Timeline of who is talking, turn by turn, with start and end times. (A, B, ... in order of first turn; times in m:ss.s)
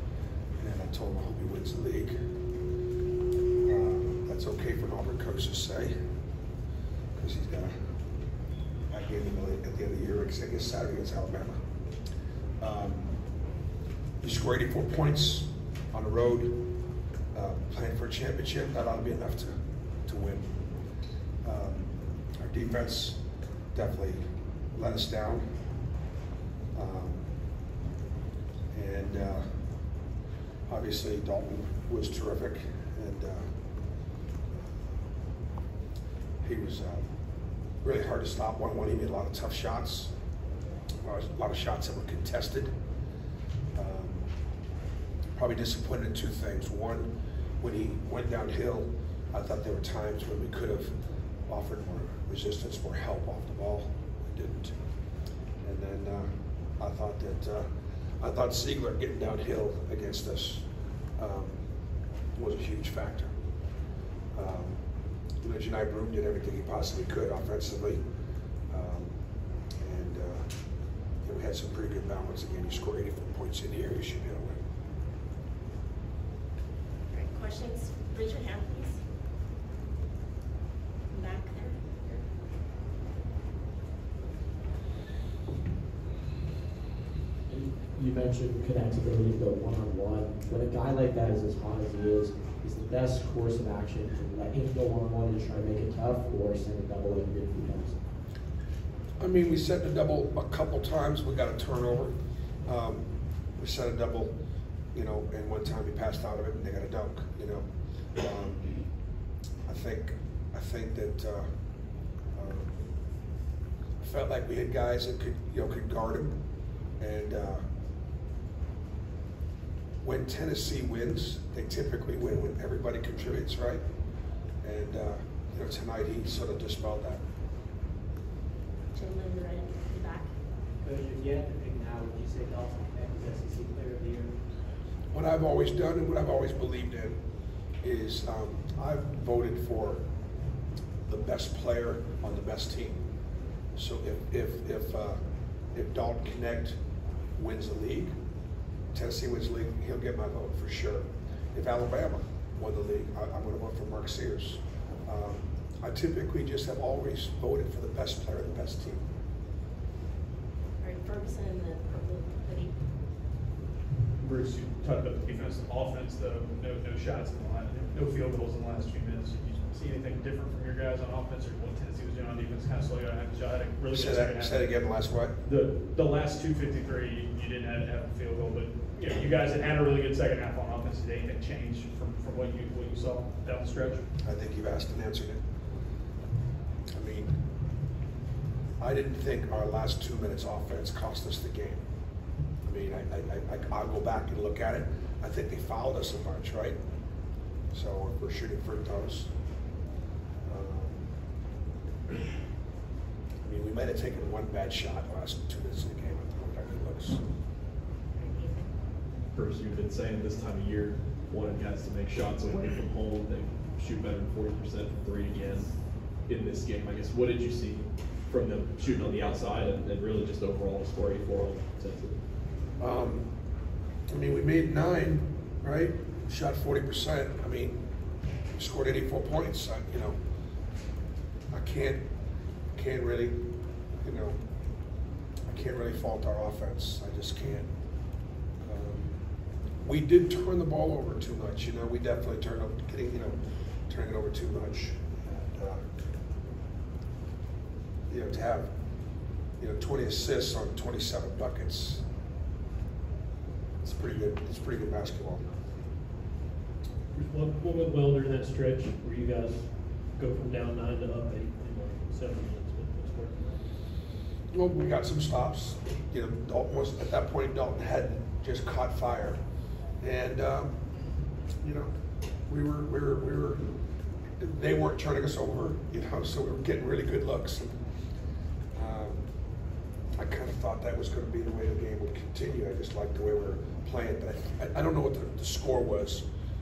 0:00.6-0:02.2 A
0:03.6-0:06.0 A
0:07.2-0:07.8 A
0:08.9-0:11.6 A
0:12.6-0:13.2 A
0:14.2-0:16.7 A
0:17.3-0:20.6 A
0:21.4-0:23.2 A
0:23.7-0:25.5 A
0:26.7-0:27.3 A
0:28.7-0:29.6 A
0:30.7-0:33.5 A
0:36.4-0:37.1 A
0:37.8-0:40.1 A
0:41.0-0:42.7 A
0:43.8-0:44.3 A
0:45.4-0:51.0 A
0:51.5-0:54.8 A
0:55.6-0:57.7 A
0:58.2-1:01.6 A
1:02.4-1:03.4 A
1:04.3-1:04.8 A
1:05.4-1:08.0 A
1:08.7-1:09.2 A
1:09.8-1:10.5 A
1:11.2-1:14.6 A
1:17.1-1:19.0 B
1:21.1-1:22.2 B
1:27.5-1:38.0 C
1:39.2-1:44.3 A
1:44.9-1:47.6 A
1:48.2-1:49.1 A
1:49.6-1:51.5 A
1:52.3-1:52.9 A
1:54.0-1:56.4 A
1:57.0-1:57.6 A
2:00.0-2:03.8 A
2:04.6-2:07.2 A
2:08.9-2:10.3 B
2:10.8-2:14.3 D
2:15.1-2:17.2 A
2:17.8-2:20.0 A
2:21.1-2:23.1 A
2:23.8-2:25.2 A
2:25.7-2:26.8 A
2:27.4-2:28.1 A
2:28.9-2:39.1 A
2:40.8-2:42.8 B
2:44.2-3:04.1 E
2:53.9-2:55.4 A
3:04.2-3:05.4 A
3:06.9-3:07.4 A
3:08.8-3:11.8 A
3:12.6-3:16.8 A
3:17.7-3:19.3 A
3:20.4-3:21.1 A
3:23.4-3:27.2 A
3:28.1-3:28.7 B
3:29.3-3:42.2 F
3:42.8-3:43.3 A
3:44.1-3:47.8 A
3:48.6-3:50.2 A
3:51.5-3:52.0 A
3:52.8-3:53.5 A
3:54.0-3:54.4 A
3:55.5-3:57.7 A
3:58.6-3:59.2 A
3:59.8-4:05.9 A
4:08.1-4:08.8 A
4:09.6-4:12.0 A
4:13.8-4:15.4 A
4:17.2-4:23.6 G
4:24.5-4:29.4 A
4:30.0-4:30.9 A
4:31.6-4:31.9 A
4:32.5-4:33.6 A
4:34.4-4:37.8 A
4:38.7-4:39.2 A
4:40.2-4:46.3 A